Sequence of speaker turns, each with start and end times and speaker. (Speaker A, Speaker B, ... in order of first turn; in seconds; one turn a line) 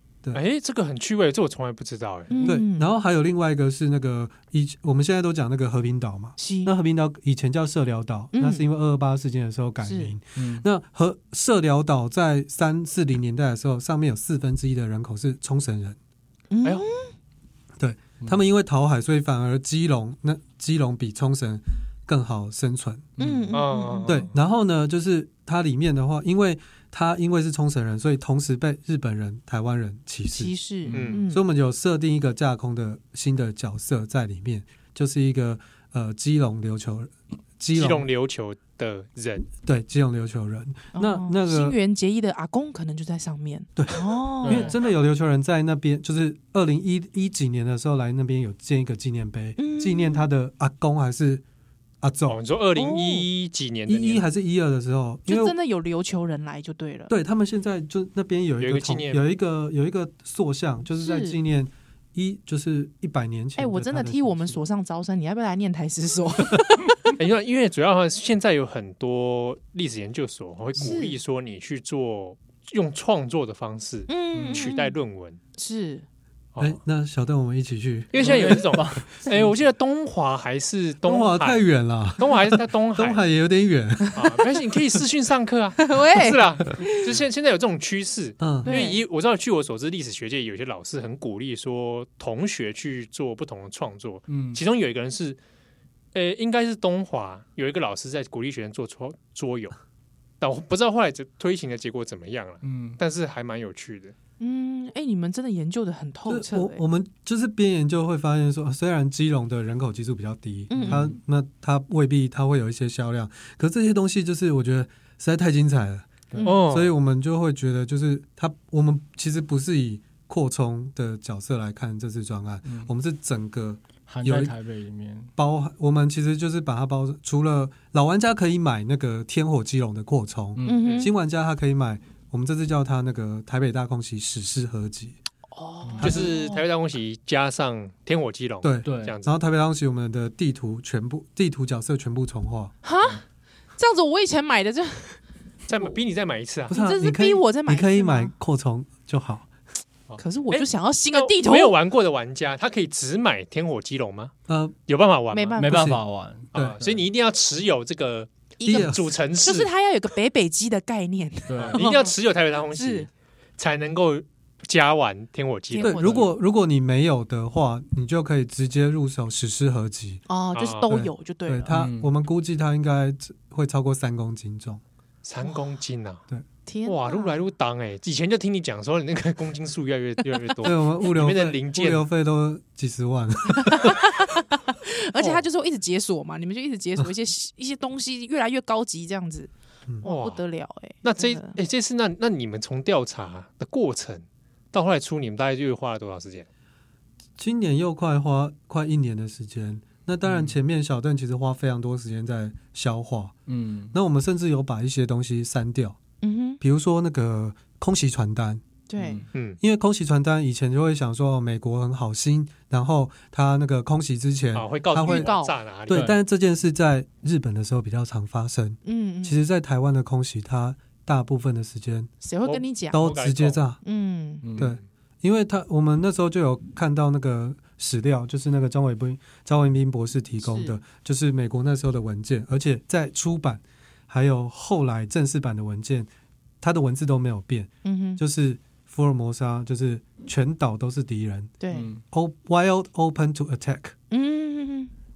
Speaker A: 0.3-2.5
Speaker B: 2.3-2.9
Speaker C: 2.4-16.0
Speaker B: 6.4-6.7
Speaker B: 8.3-8.7
Speaker B: 9.8-10.1
Speaker D: 10.4-10.6
Speaker B: 16.5-17.1
Speaker C: 17.8-23.1
Speaker D: 23.2-23.5
Speaker B: 23.2-24.2
Speaker A: 23.5-24.4
Speaker C: 24.1-30.5
Speaker B: 30.3-31.4
Speaker D: 30.9-31.2
Speaker A: 30.9-31.2
Speaker C: 31.3-38.1
Speaker A: 37.7-39.5
Speaker C: 39.6-41.8
Speaker B: 40.9-44.7
Speaker C: 43.8-51.4
Speaker D: 44.5-44.7
Speaker A: 44.5-44.8
Speaker B: 49.6-50.2
Speaker C: 52.0-52.4
Speaker A: 52.3-54.2
Speaker B: 52.8-53.3
Speaker C: 53.9-55.5
Speaker B: 55.3-57.1
Speaker C: 57.1-64.6
Speaker A: 58.6-59.2
Speaker B: 61.0-61.4
Speaker B: 63.6-67.1
Speaker A: 67.1-75.4
Speaker B: 70.8-71.2
Speaker B: 74.1-75.0
Speaker D: 74.3-74.7
Speaker B: 75.6-76.0
Speaker C: 76.6-78.7
Speaker A: 78.1-81.7
Speaker D: 78.2-79.5
Speaker C: 81.0-84.2
Speaker A: 82.2-83.2
Speaker A: 84.1-95.4
Speaker B: 85.8-87.1
Speaker C: 88.4-88.8
Speaker B: 88.6-89.0
Speaker D: 94.3-94.6
Speaker A: 96.1-99.8
Speaker A: 100.4-104.1
Speaker D: 102.6-103.0
Speaker B: 104.4-106.8
Speaker C: 106.3-116.1
Speaker B: 110.7-111.0
Speaker D: 110.8-111.2
Speaker B: 116.3-116.6
Speaker A: 116.4-116.9
Speaker C: 116.7-124.5
Speaker D: 124.1-125.3
Speaker C: 125.4-135.2
Speaker D: 130.6-130.8
Speaker B: 130.6-131.1
Speaker B: 135.5-136.6
Speaker D: 135.9-136.1
Speaker C: 136.0-136.3
Speaker A: 136.0-139.3
Speaker C: 138.6-142.7
Speaker D: 138.8-139.1
Speaker B: 142.8-143.2
Speaker B: 143.8-145.2
Speaker A: 145.7-146.7
Speaker C: 146.7-149.5
Speaker B: 146.7-148.3
Speaker A: 150.1-154.3
Speaker B: 150.2-151.8
Speaker C: 154.5-154.8
Speaker A: 154.9-155.6
Speaker B: 155.3-155.9
Speaker D: 155.6-157.0
Speaker C: 155.6-156.0
Speaker A: 156.5-159.7
Speaker B: 158.6-162.1
Speaker C: 158.7-159.0
Speaker D: 161.5-161.8
Speaker A: 161.6-166.3
Speaker B: 162.7-163.1
Speaker B: 165.7-166.3
Speaker C: 165.8-170.2
Speaker B: 170.3-171.7
Speaker A: 170.5-170.9
Speaker C: 170.9-174.8
Speaker D: 171.7-172.1
Speaker A: 175.2-176.2
Speaker B: 176.7-177.4
Speaker A: 176.9-182.0
Speaker C: 180.6-184.0
Speaker B: 183.5-189.5
Speaker A: 185.2-185.4
Speaker B: 190.0-191.6
Speaker A: 190.0-190.4
Speaker A: 191.0-196.5
Speaker C: 197.4-203.4
Speaker D: 200.2-200.6
Speaker D: 203.5-203.9
Speaker C: 203.9-206.0
Speaker B: 206.2-206.6
Speaker C: 206.6-208.6
Speaker B: 208.9-209.2
Speaker D: 209.0-209.3
Speaker C: 209.6-215.3
Speaker A: 214.5-216.1
Speaker B: 215.0-215.5
Speaker C: 215.9-222.1
Speaker D: 215.9-216.2
Speaker B: 218.8-219.4
Speaker B: 222.2-223.0
Speaker A: 222.4-223.6
Speaker C: 222.9-223.8
Speaker B: 223.8-224.4
Speaker D: 224.4-224.7
Speaker C: 224.6-236.1
Speaker B: 230.4-230.8
Speaker C: 236.6-241.6
Speaker B: 237.8-238.2
Speaker B: 241.6-241.9
Speaker D: 241.7-242.0
Speaker C: 242.1-243.9
Speaker B: 244.1-244.9